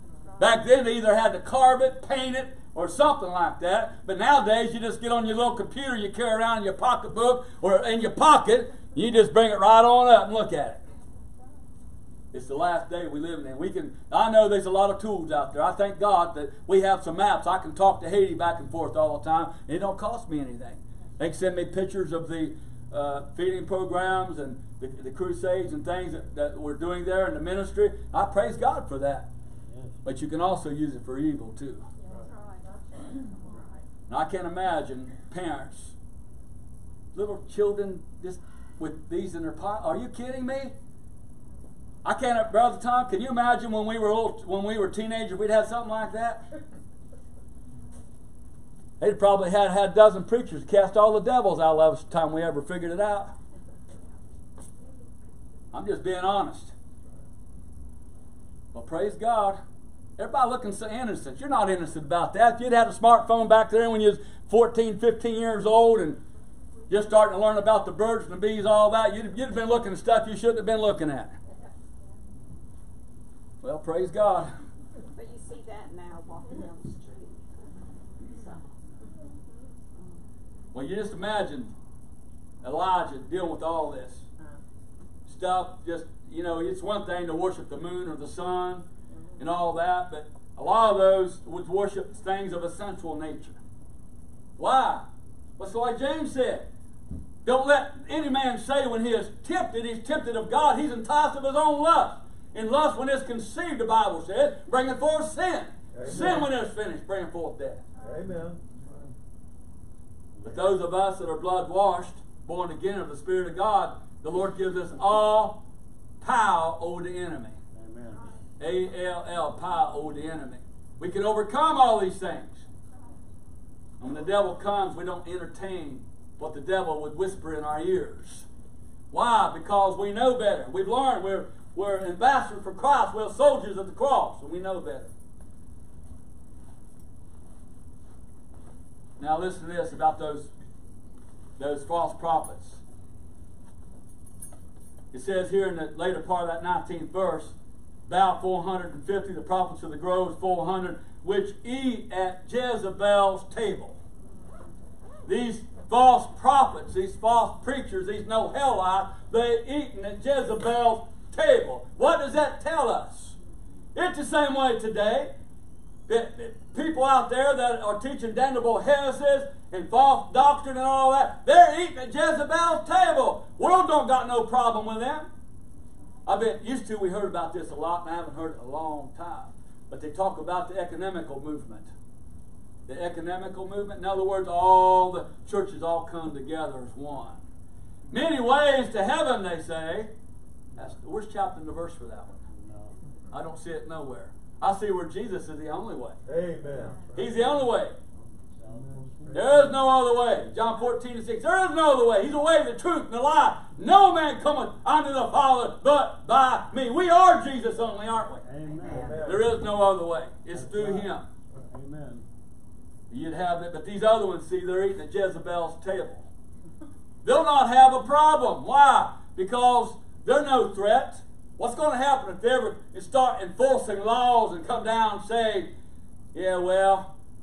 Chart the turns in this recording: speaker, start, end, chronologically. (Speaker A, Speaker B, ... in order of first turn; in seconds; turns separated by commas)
Speaker A: 0.4-10.8, Speaker A: 12.3-29.3, Speaker B: 29.7-29.9, Speaker A: 30.0-31.9, Speaker C: 32.0-33.6, Speaker A: 34.1-35.9, Speaker A: 37.1-40.7, Speaker A: 42.0-46.4, Speaker A: 49.0-53.3, Speaker A: 55.7-56.7, Speaker A: 58.7-59.6, Speaker A: 60.2-66.2, Speaker A: 66.9-71.3, Speaker A: 73.6-74.5, Speaker C: 75.1-77.5, Speaker C: 78.2-78.6, Speaker A: 80.7-81.7, Speaker A: 82.6-84.2, Speaker A: 85.3-88.8, Speaker A: 89.4-93.6, Speaker A: 94.6-95.0, Speaker A: 95.6-96.7, Speaker A: 97.4-107.8, Speaker D: 105.9-106.5, Speaker D: 108.0-108.6, Speaker A: 110.4-115.6, Speaker A: 116.2-117.6, Speaker B: 117.7-118.2, Speaker A: 118.6-122.6, Speaker A: 124.0-128.5, Speaker A: 129.1-135.1, Speaker A: 139.2-140.5, Speaker A: 141.6-142.8, Speaker A: 145.1-147.5, Speaker A: 148.1-154.0, Speaker A: 155.2-163.4, Speaker A: 163.9-165.3, Speaker A: 166.1-175.3, Speaker A: 176.2-181.9, Speaker A: 182.9-187.4, Speaker A: 188.1-190.1, Speaker A: 190.8-192.4, Speaker B: 192.5-192.9, Speaker A: 193.3-196.2, Speaker D: 196.2-197.1, Speaker A: 197.1-198.0, Speaker B: 198.6-199.7, Speaker A: 199.3-208.4, Speaker B: 208.4-209.2, Speaker D: 208.8-209.5, Speaker A: 209.2-211.2, Speaker B: 210.5-212.2, Speaker A: 213.1-216.3, Speaker A: 217.2-225.7, Speaker A: 226.3-227.1